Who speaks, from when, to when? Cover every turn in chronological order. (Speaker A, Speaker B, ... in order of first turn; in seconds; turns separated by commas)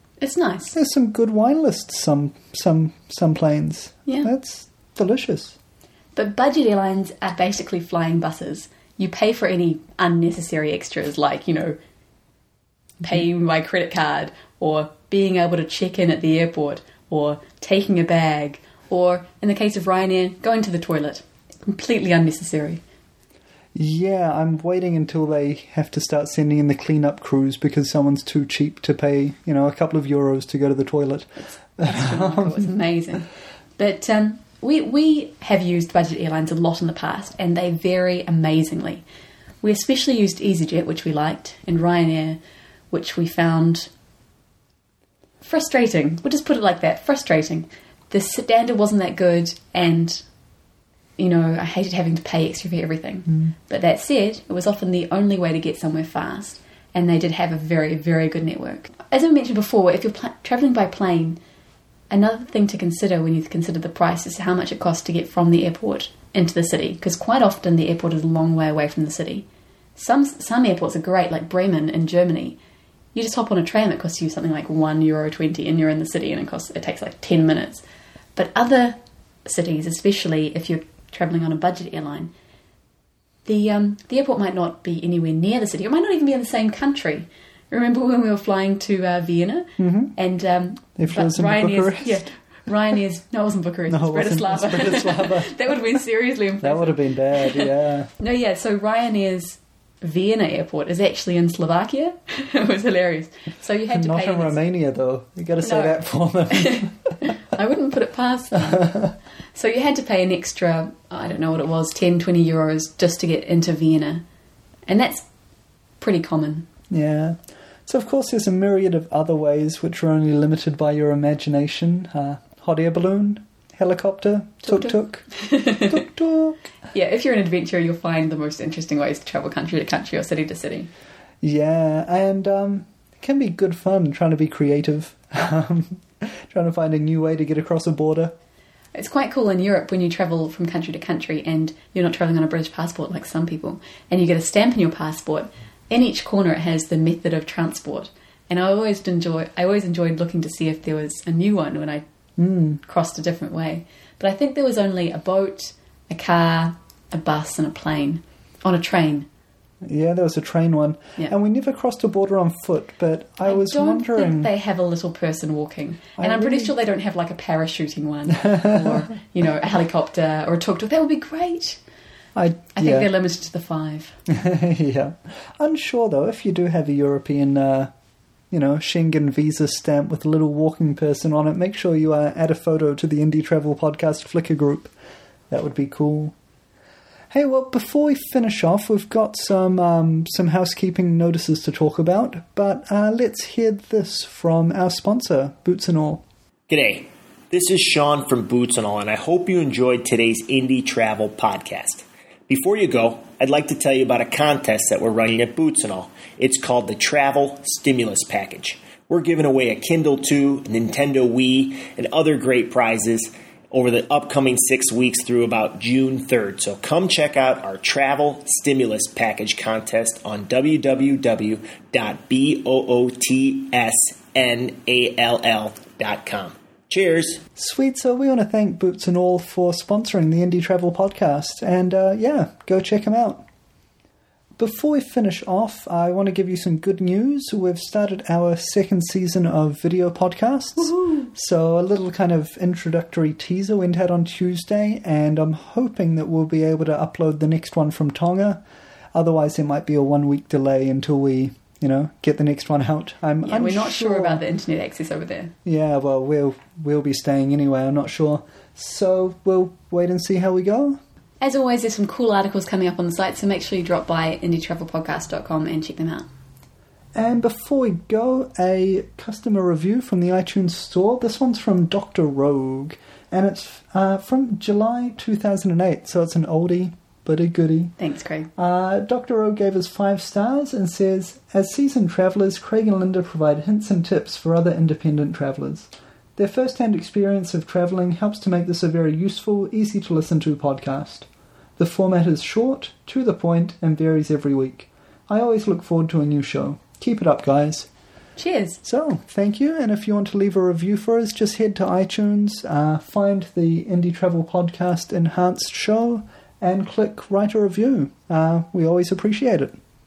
Speaker A: 0.2-0.8, Speaker B: 0.7-5.6, Speaker A: 6.1-11.8, Speaker A: 13.0-22.8, Speaker B: 23.8-32.7, Speaker A: 31.5-39.0, Speaker A: 39.6-42.4, Speaker A: 42.9-43.9, Speaker A: 45.4-50.2, Speaker A: 51.2-61.4, Speaker A: 62.1-72.6, Speaker A: 73.1-77.8, Speaker A: 78.4-82.3, Speaker A: 83.5-104.6, Speaker B: 89.8-90.2, Speaker B: 91.0-92.3, Speaker B: 93.9-95.8, Speaker B: 96.6-98.1, Speaker B: 103.9-107.1, Speaker A: 105.6-108.9, Speaker B: 108.6-109.1, Speaker A: 109.5-114.2, Speaker A: 114.9-115.3, Speaker A: 116.0-116.7, Speaker B: 116.9-125.3, Speaker A: 124.6-126.0, Speaker B: 125.8-126.6, Speaker A: 126.9-130.9, Speaker B: 131.4-138.3, Speaker A: 138.9-152.1, Speaker B: 152.4-152.8, Speaker A: 152.8-159.3, Speaker B: 159.8-164.5, Speaker A: 163.4-171.8, Speaker B: 166.2-166.7, Speaker B: 168.4-169.0, Speaker B: 172.3-173.1, Speaker A: 172.8-174.2, Speaker B: 174.3-177.9, Speaker B: 178.5-184.9, Speaker B: 185.5-186.4, Speaker B: 187.3-196.2, Speaker C: 196.7-227.4, Speaker B: 227.6-233.4, Speaker B: 234.6-248.6, Speaker B: 249.1-254.4, Speaker A: 253.4-255.6, Speaker B: 255.6-261.0, Speaker A: 261.4-266.3, Speaker B: 267.1-277.9, Speaker A: 278.0-278.5, Speaker B: 278.6-297.9, Speaker A: 298.4-298.8, Speaker B: 298.8-309.8